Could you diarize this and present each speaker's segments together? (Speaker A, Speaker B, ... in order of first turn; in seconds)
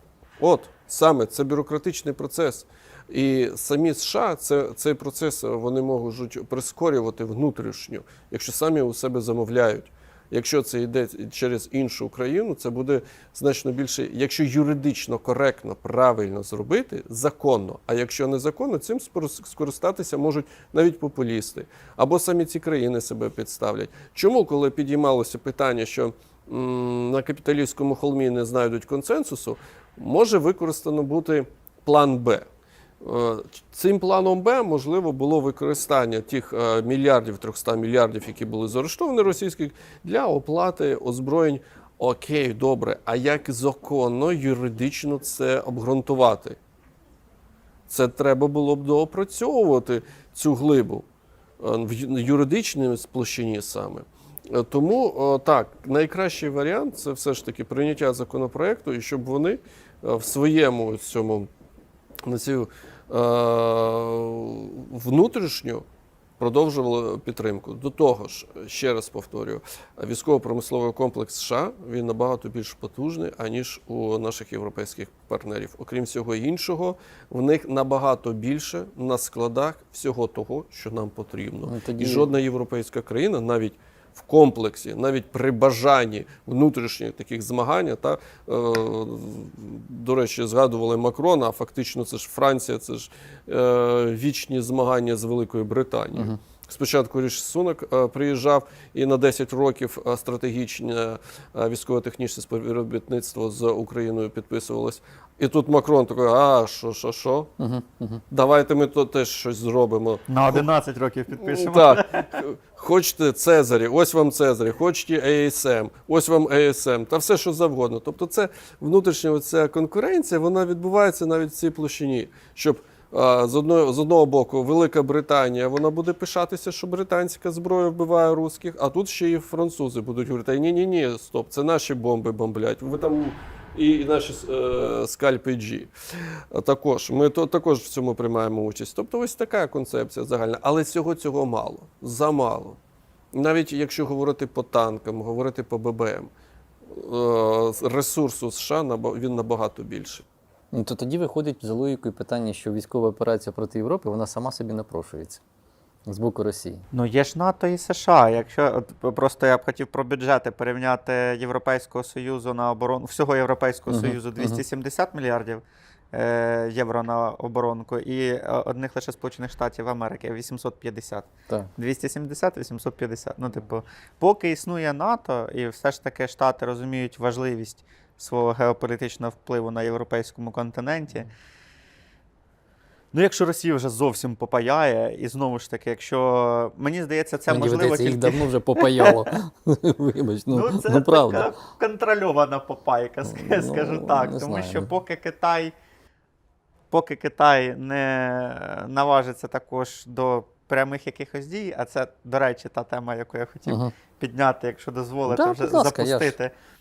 Speaker A: 0.4-32.5, 33.0-46.6, 47.9-51.1, 51.6-61.5, 62.2-65.8, 66.4-107.5, 108.3-110.7, 111.4-135.9, 136.5-142.8, 143.3-146.3, 146.8-150.3
Speaker B: 81.7-82.3, 107.6-108.2, 150.7-155.4, 156.1-156.9, 163.9-164.6, 187.5-191.5, 193.2-194.9, 203.7-203.9, 205.3-206.3
Speaker C: 110.3-112.4, 156.9-181.3, 183.1-189.2, 190.5-195.7, 196.9-206.5